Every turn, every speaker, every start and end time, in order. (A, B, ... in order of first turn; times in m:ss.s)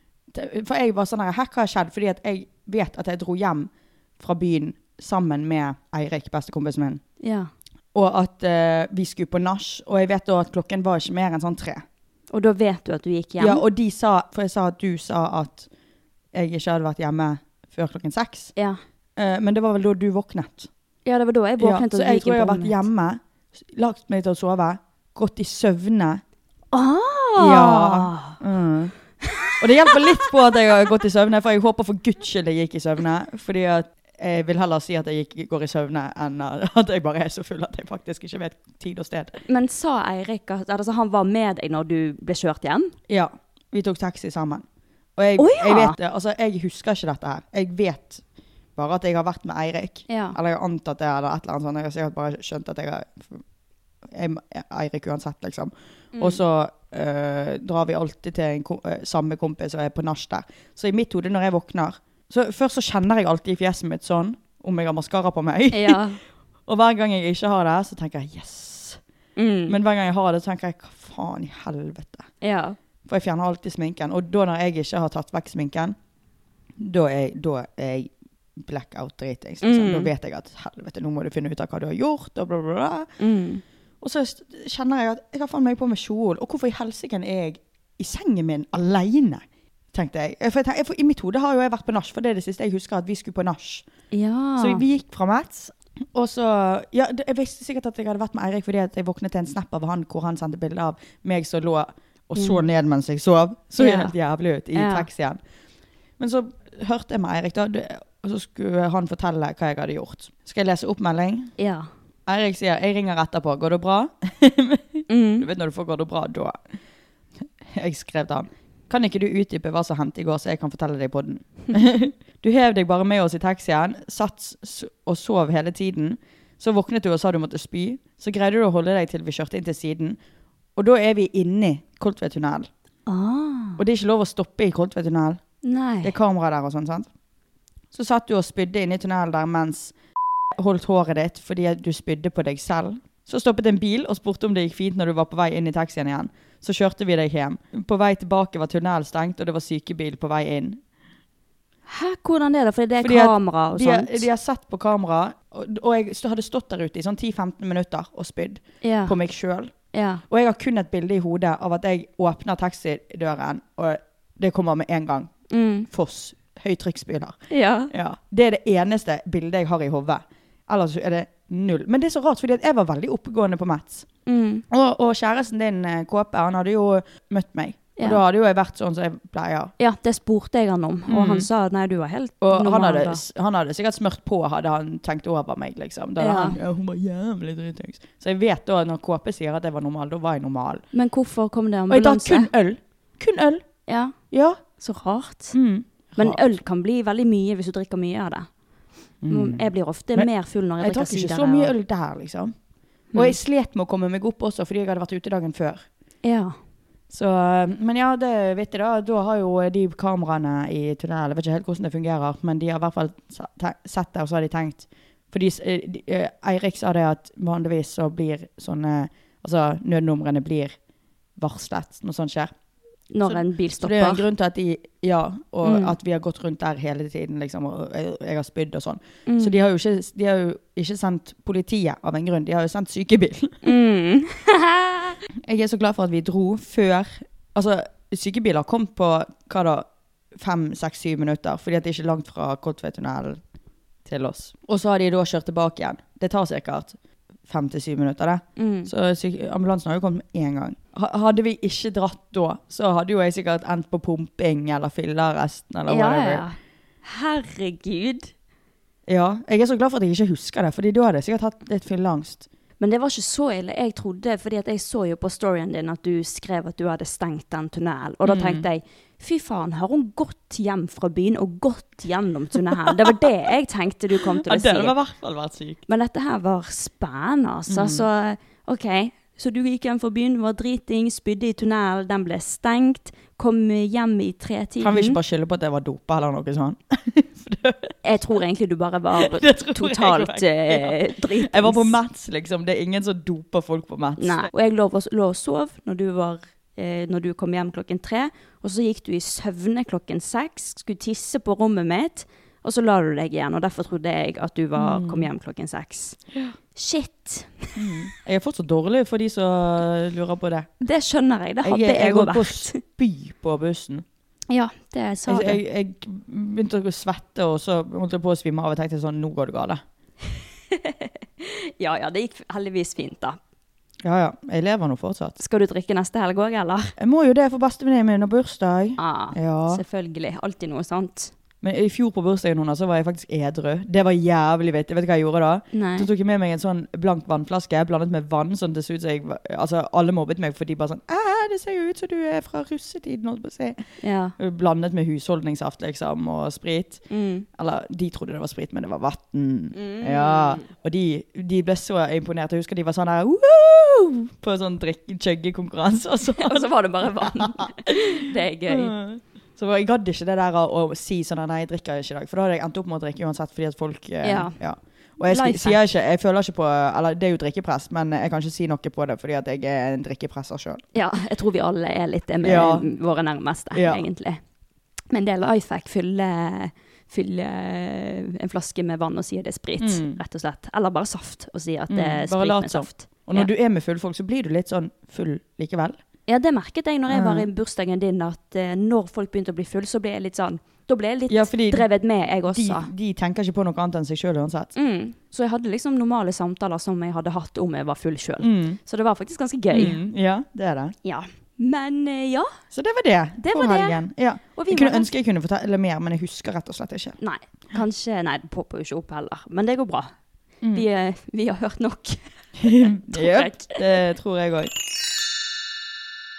0:00.3-0:07.0 A
0:07.2-0:07.5 B
0:07.9-0:11.8 A
0:12.3-0:13.6 B
0:13.4-0:15.7 A
0:16.3-0:18.5 A
0:19.2-0:20.7 A
0:21.0-0:22.8 B
0:21.6-0:26.2 A
0:26.7-0:28.3 B
0:27.4-0:28.9 A
0:29.2-0:29.5 B
0:29.6-0:39.4 A
0:39.5-0:42.9 B
0:43.1-0:44.6 A
0:45.2-0:48.2 A
0:45.4-0:46.0 B
0:48.8-0:53.4 A
0:50.1-0:50.4 B
0:54.1-1:06.0 A
0:56.1-0:56.4 B
1:05.7-1:06.2 B
1:06.7-1:09.0 A
1:09.4-1:09.8 B
1:09.7-1:12.3 A
1:12.4-1:12.8 B
1:13.0-1:16.0 A
1:16.8-1:23.1 A
1:19.6-1:20.1 B
1:23.2-1:23.6 B
1:24.0-1:33.9 A
1:34.1-1:34.8 B
1:34.6-1:45.4 A
1:42.4-1:42.6 B
1:43.8-1:44.1 B
1:44.7-1:45.0 B
1:46.2-1:51.5 A
1:51.6-1:51.9 B
1:52.2-1:56.7 A
1:55.1-1:55.5 B
1:57.6-2:10.2 A
2:10.8-2:12.7 A
2:13.1-2:13.8 B
2:13.8-2:15.4 A
2:15.6-2:16.1 B
2:16.0-2:17.1 A
2:17.9-2:19.9 A
2:20.6-2:30.8 A
2:31.9-2:34.2 B
2:33.0-2:39.7 A
2:38.8-2:39.2 B
2:39.9-2:40.2 B
2:40.3-2:45.3 A
2:45.5-2:45.9 B
2:45.9-2:47.4 A
2:47.5-2:47.9 B
2:47.9-2:54.1 A
2:54.2-2:54.6 B
2:54.7-2:59.7 A
2:59.8-3:03.2 B
3:01.1-3:01.5 A
3:02.4-3:10.8 A
3:06.2-3:06.6 B
3:10.9-3:12.5 B
3:11.9-3:13.6 A
3:13.9-3:14.1 B
3:14.3-3:14.6 A
3:14.8-3:15.6 B
3:15.5-3:16.4 A
3:16.2-3:18.5 B
3:19.2-3:22.5 A
3:19.3-3:21.7 B
3:23.1-3:25.8 A
3:26.2-3:26.6 B
3:27.1-3:40.8 A
3:41.4-3:42.5 A
3:43.1-3:44.2 B
3:43.2-3:53.6 A
3:45.6-3:45.9 B
3:49.3-3:49.6 B
3:53.6-3:55.2 B
3:55.4-4:03.4 A
4:04.0-4:16.4 A
4:08.6-4:08.9 B
4:15.9-4:18.3 B
4:19.1-4:22.5 A
4:22.8-4:34.9 B
4:28.2-4:28.6 A
4:34.4-4:35.8 A
4:35.9-4:45.2 B
4:37.7-4:38.0 A
4:44.8-4:47.9 A
4:48.0-4:51.9 B
4:49.2-4:54.5 A
4:54.2-5:06.2 B
5:04.8-5:05.3 A
5:06.7-5:08.0 B
5:07.8-5:10.7 A
5:10.8-5:12.8 B
5:11.6-5:14.0 A
5:14.5-5:15.6 B
5:15.3-5:19.8 A
5:20.7-5:23.4 B
5:24.0-5:25.4 A
5:25.4-5:26.9 B
5:27.0-5:29.8 A
5:29.0-5:31.3 B
5:31.6-5:43.8 A
5:35.7-5:36.1 B
5:44.0-5:44.3 B
5:44.4-5:47.0 A
5:47.1-5:47.4 B
5:47.6-5:58.1 A
5:49.7-5:50.6 B
5:56.4-5:58.9 B
5:58.7-6:10.8 A
6:04.2-6:04.6 B
6:05.2-6:05.8 B
6:10.9-6:14.4 B
6:12.4-6:12.8 A
6:13.7-6:14.0 A
6:15.1-6:23.5 B
6:19.8-6:20.2 A
6:21.9-6:26.0 A
6:26.3-6:32.9 B
6:27.1-6:27.5 A
6:31.3-6:31.8 A
6:32.5-6:34.7 A
6:34.8-6:40.0 B
6:38.4-6:38.8 A
6:39.7-6:41.0 A
6:41.0-6:42.5 B
6:42.7-6:47.2 A
6:43.4-6:44.0 B
6:44.5-6:45.1 B
6:47.2-6:50.1 B
6:50.7-6:54.0 B
6:52.6-6:54.7 A